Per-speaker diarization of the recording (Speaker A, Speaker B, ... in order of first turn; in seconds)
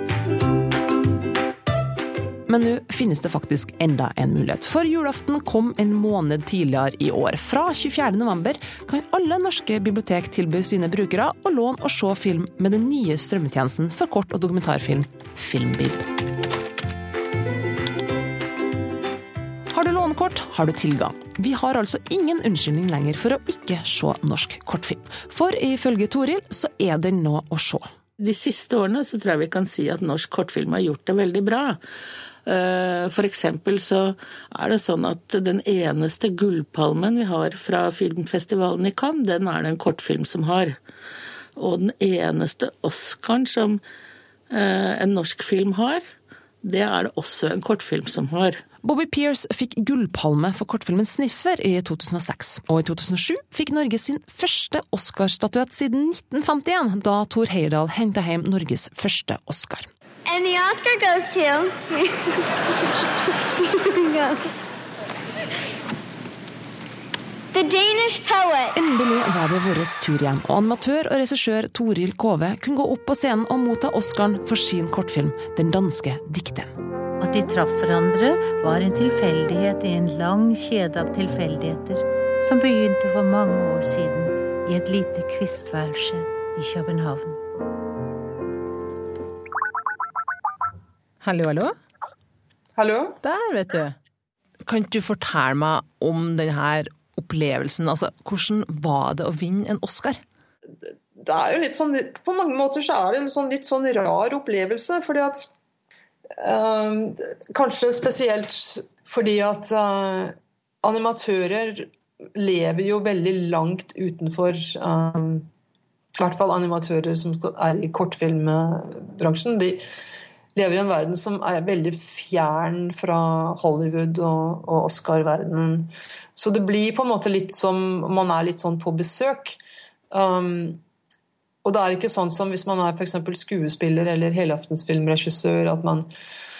Speaker A: 2.5-16.1, 19.7-27.9, 48.8-59.9, 68.7-76.7
Speaker B: 28.2-31.8, 32.5-40.8, 41.5-43.8, 44.5-46.0, 46.6-48.6
Speaker C: 60.3-62.5, 63.6-64.5, 67.5-68.7
Speaker D: 77.2-87.4
Speaker E: 91.2-91.8, 93.2-94.0, 94.6-100.2
Speaker F: 92.8-93.2, 101.2-105.5, 106.4-115.5, 116.2-119.8, 120.5-129.6, 130.1-130.8, 131.6-136.1